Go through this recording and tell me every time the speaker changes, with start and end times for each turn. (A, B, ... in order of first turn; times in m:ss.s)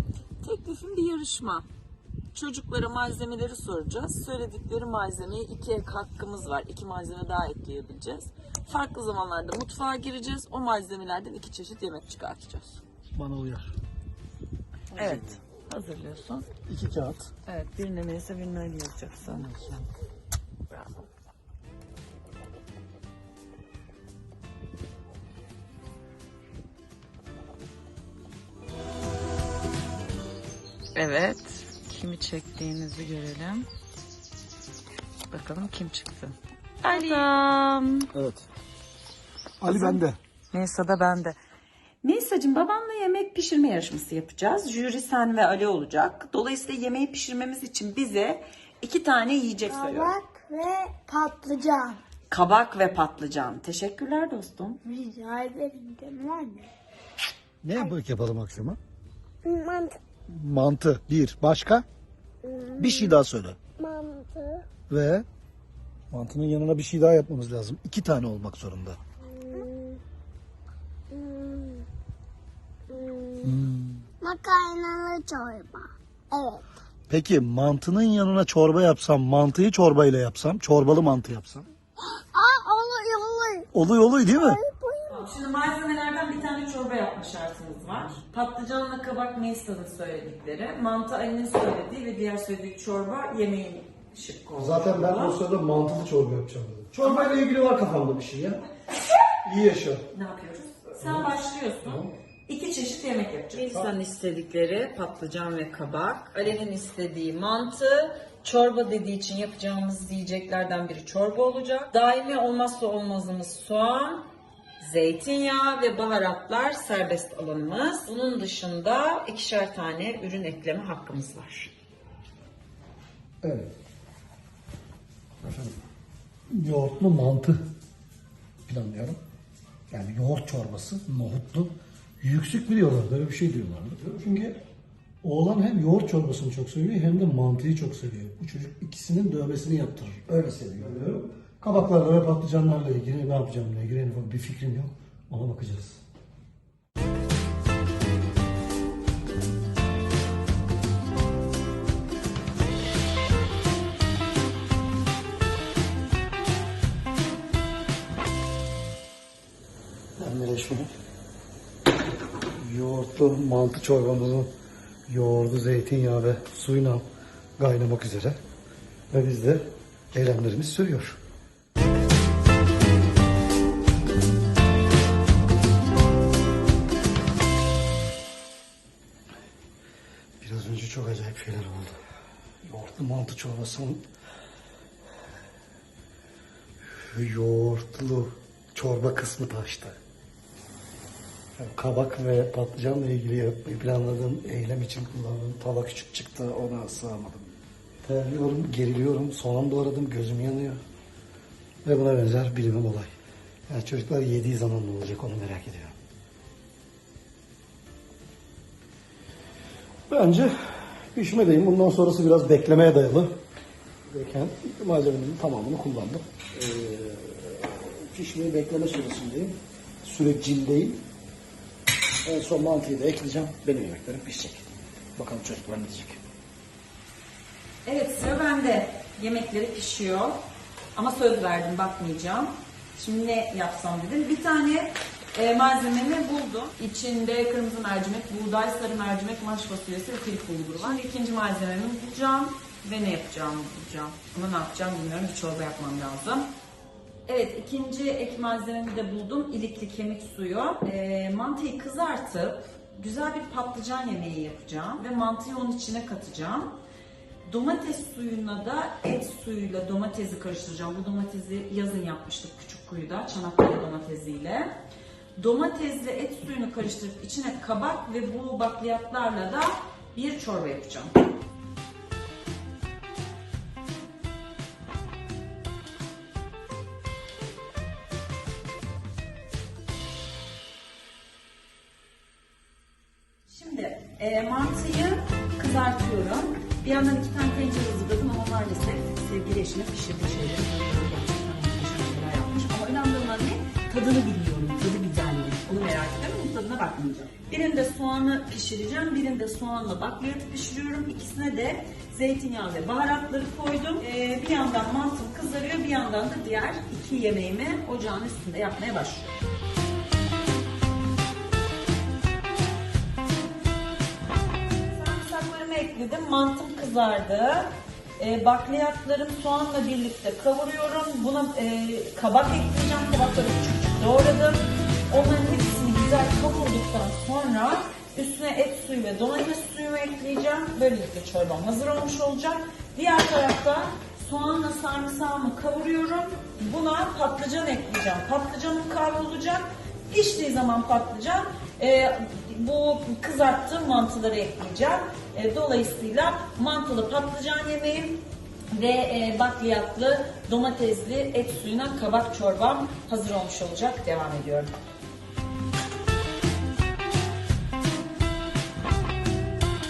0:00.4-0:01.6 A
0:02.3-0:12.8 A
0:13.1-0:13.7 B
0:14.9-0:16.5 A
0:15.0-0:15.4 B
0:16.7-0:17.3 B
0:17.5-0:19.9 A
0:20.7-0:21.0 A
0:31.0-0:33.7 A
0:35.3-0:38.1 A
0:38.1-0:38.4 B
0:39.6-0:40.2 B
0:39.7-0:41.4 A
0:42.0-0:50.2 A
0:49.6-0:52.0 C
0:52.3-0:54.8 A
0:54.8-0:56.7 C
0:57.6-0:58.8 B
0:59.4-1:00.0 C
1:00.3-1:01.8 B
1:02.4-1:03.1 C
1:02.7-1:03.6 B
1:03.8-1:04.7 C
1:04.9-1:05.3 B
1:06.1-1:09.0 B
1:09.4-1:10.0 C
1:11.1-1:11.8 C
1:12.9-1:13.5 C
1:13.4-1:14.0 B
1:14.2-1:16.6 C
1:17.1-1:21.7 B
1:22.3-1:23.7 C
1:23.7-1:24.6 B
1:24.3-1:25.3 C
1:25.1-1:35.4 A
1:34.6-1:38.6 B
1:39.4-1:40.1 B
1:40.1-1:54.3 A
1:41.0-1:41.3 B
1:41.8-1:42.1 B
1:43.6-1:43.9 B
1:54.8-2:01.7 A
2:03.4-2:03.7 B
2:05.4-2:05.8 B
2:06.5-2:07.6 B
2:08.7-2:09.2 B
2:09.9-2:14.6 B
2:15.2-2:26.0 B
2:40.2-2:40.9 B
2:42.6-2:44.5 B
2:45.1-2:47.0 B
2:47.6-2:48.4 B
2:49.1-2:51.2 B
3:00.4-3:02.0 B
3:02.6-3:04.0 B
3:06.9-3:10.0 B
3:11.6-3:20.8 B
3:21.8-3:23.1 B
3:23.7-3:26.0 B
3:30.1-3:30.5 B
3:31.1-3:33.4 B
3:34.1-3:41.0 B
3:42.2-3:46.2 B
3:47.8-3:50.4 A
3:50.9-4:06.5 A
4:07.3-4:16.8 A
4:17.4-4:24.8 A
4:25.4-4:31.2 A
4:43.5-5:09.3 A
5:14.9-5:54.7 A